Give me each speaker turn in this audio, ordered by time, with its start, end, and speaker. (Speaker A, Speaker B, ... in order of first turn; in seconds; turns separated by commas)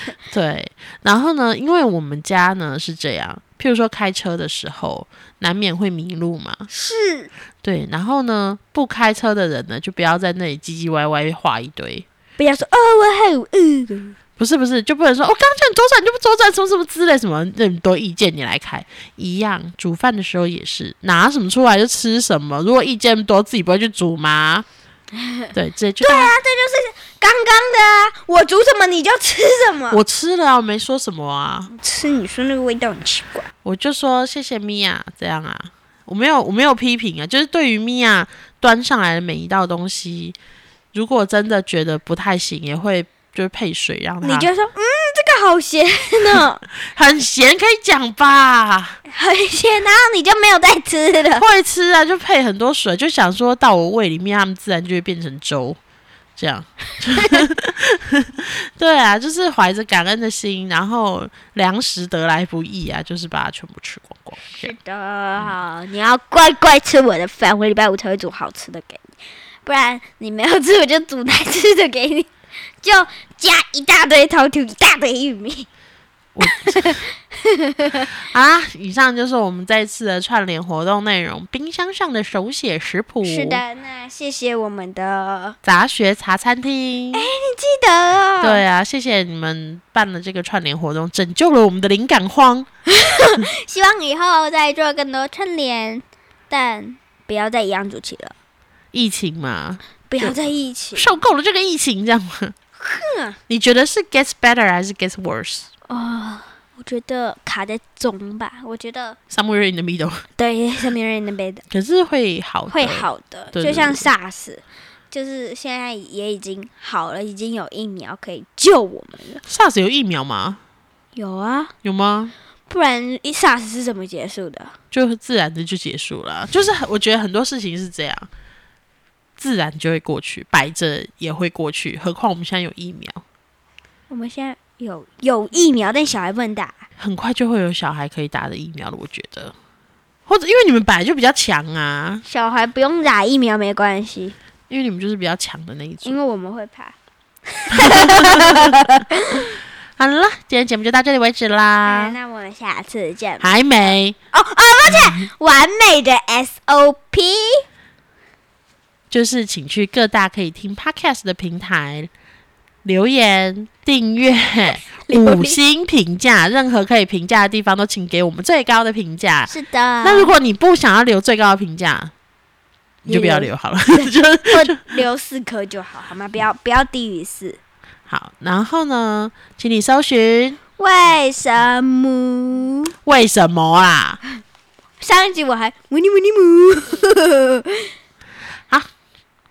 Speaker A: 0.2-6.7, Speaker B: 6.7-7.3, Speaker A: 7.6-12.1, Speaker B: 12.4-14.2, Speaker A: 14.4-24.7, Speaker B: 25.1-30.0, Speaker A: 25.5-26.4, Speaker A: 29.9-31.7, Speaker B: 31.7-33.5, Speaker A: 33.6-40.4, Speaker A: 40.9-44.5, Speaker B: 44.2-46.6, Speaker A: 46.3-49.0, Speaker B: 49.1-51.5, Speaker A: 51.4-55.8, Speaker A: 56.4-64.7, Speaker B: 57.2-57.5, Speaker B: 64.4-69.0, Speaker B: 69.7-72.3, Speaker B: 72.8-75.7, Speaker A: 76.3-77.0, Speaker B: 76.4-78.1, Speaker A: 78.1-83.6, Speaker B: 83.2-85.6, Speaker A: 85.6-87.3, Speaker B: 87.1-88.6, Speaker A: 88.4-92.7, Speaker B: 92.9-98.3, Speaker A: 98.9-100.4, Speaker B: 100.1-101.1, Speaker A: 101.0-102.5, Speaker B: 102.8-103.4, Speaker A: 103.5-105.7, Speaker B: 105.9-109.2, Speaker A: 109.3-110.2, Speaker B: 110.4-111.6, Speaker A: 111.7-114.1, Speaker B: 112.7-119.4, Speaker A: 119.5-120.6, Speaker B: 121.2-121.7, Speaker A: 121.8-122.3, Speaker B: 122.7-124.8, Speaker A: 124.9-128.3, Speaker A: 129.4-133.2, Speaker B: 134.1-136.9, Speaker A: 137.0-139.6, Speaker A: 140.3-142.2, Speaker B: 142.3-144.4, Speaker A: 144.7-146.2, Speaker B: 146.0-147.0, Speaker B: 147.5-149.6, Speaker A: 147.8-148.9, Speaker A: 150.0-152.2, Speaker B: 151.8-157.7, Speaker A: 153.4-154.2, Speaker A: 154.9-155.3, Speaker A: 159.1-162.1, Speaker A: 162.8-169.5, Speaker B: 164.9-165.6, Speaker B: 169.5-170.4, Speaker A: 170.0-172.1, Speaker B: 173.0-177.6, Speaker A: 173.1-174.9, Speaker A: 178.1-180.6, Speaker B: 180.8-182.9, Speaker A: 183.1-184.2, Speaker B: 185.0-187.9